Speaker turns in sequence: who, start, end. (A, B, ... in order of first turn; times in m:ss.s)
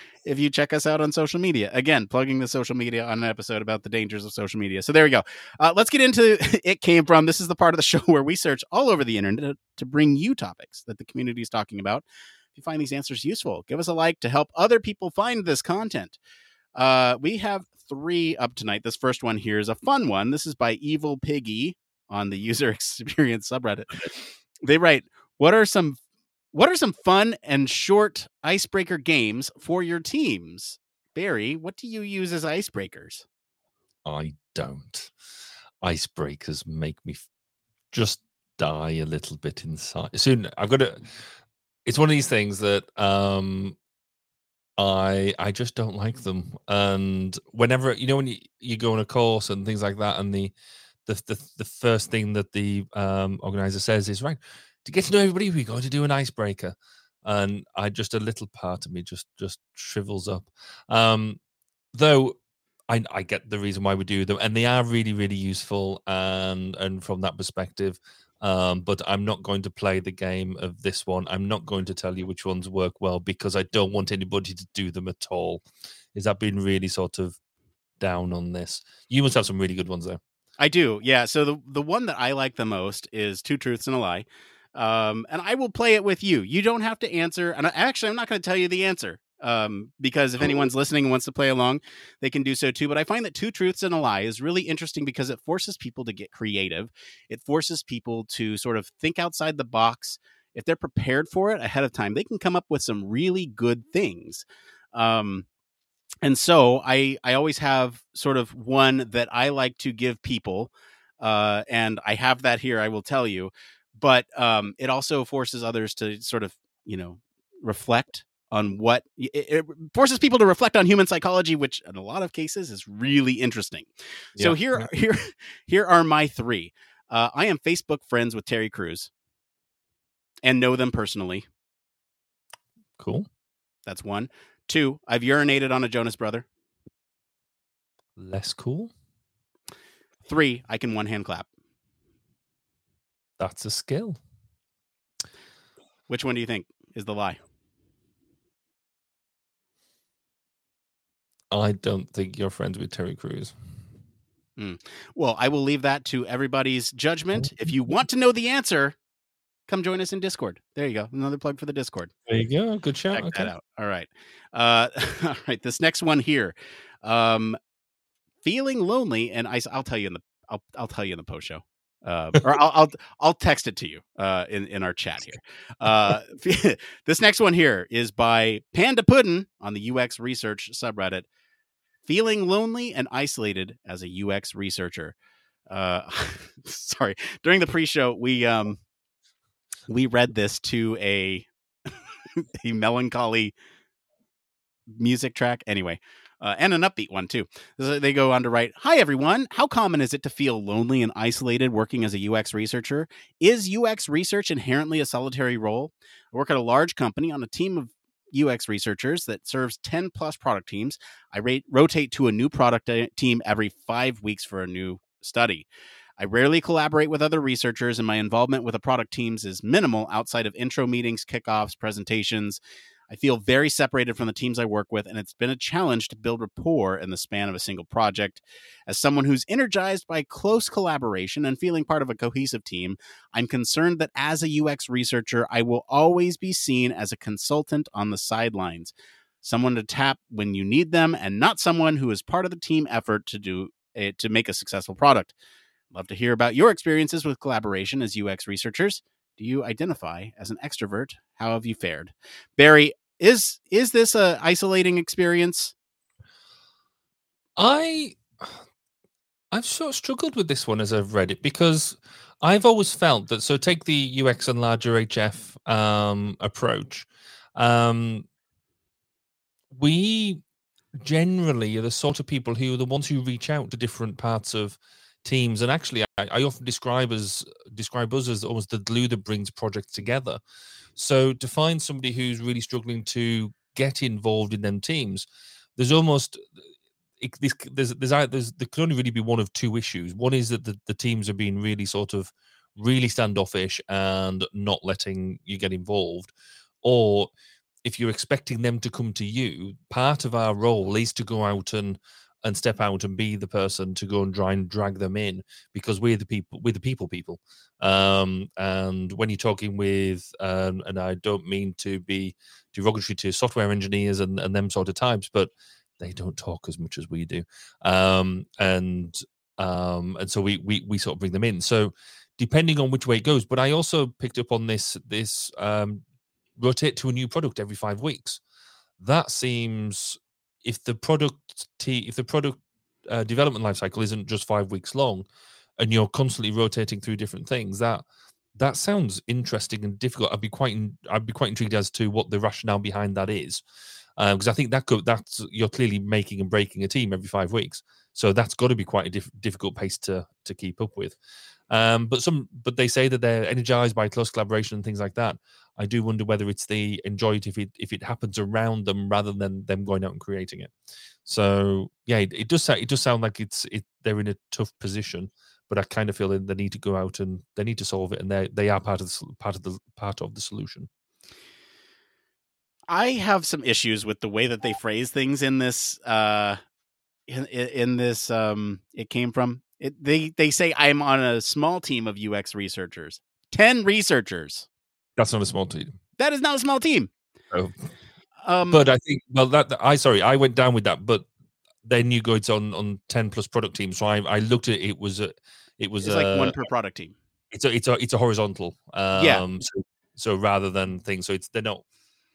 0:00.2-0:16.2 A
0:16.8-0:24.1 A
0:24.6-0:26.0 A
0:26.5-0:33.2 A
0:34.0-0:35.1 B
0:35.8-0:37.2 B
0:37.9-0:41.1 B
0:41.9-0:43.8 B
0:44.8-0:50.5 B
0:51.1-1:01.4 B
1:01.9-1:17.4 B
1:18.0-1:20.2 B
1:20.6-1:45.5 A
1:46.2-2:09.1 A
2:04.4-2:04.9 B
2:10.4-2:11.5 A
2:13.0-2:13.3 B
2:13.9-2:16.5 A
2:18.2-2:18.9 B
2:20.2-2:21.5 A
2:23.4-2:24.2 B
2:26.1-2:27.4 A
2:31.5-2:33.5 B
2:34.6-2:39.0 A
2:39.7-2:42.1 A
2:42.3-2:43.5 B
2:43.1-2:47.6 A
2:48.4-3:01.3 A
3:02.0-3:05.2 A
3:05.7-3:08.8 A
3:09.9-3:11.5 A
3:12.4-3:13.5 A
3:14.9-3:35.7 A
3:36.2-4:05.3 A
4:05.9-4:15.7 A
4:17.6-4:18.6 B
4:19.5-4:28.3 B
4:29.7-4:30.4 B
4:31.0-4:40.4 B
4:41.0-4:46.6 B
4:47.2-4:56.3 B
4:56.8-4:57.3 B
4:57.8-5:26.0 B
5:26.6-5:28.4 B
5:29.0-5:35.3 B
5:35.8-5:43.6 B
5:44.2-5:51.2 B
5:51.7-6:00.7 B
6:01.2-6:10.9 B
6:12.9-6:16.6 A
6:17.3-6:24.7 A
6:25.2-6:25.9 B
6:26.2-6:27.1 A
6:27.5-6:27.9 B
6:28.4-6:28.9 A
6:28.7-6:31.3 B
6:31.8-6:36.6 B
6:36.0-6:37.2 A
6:37.5-6:41.8 B
6:39.1-6:39.4 A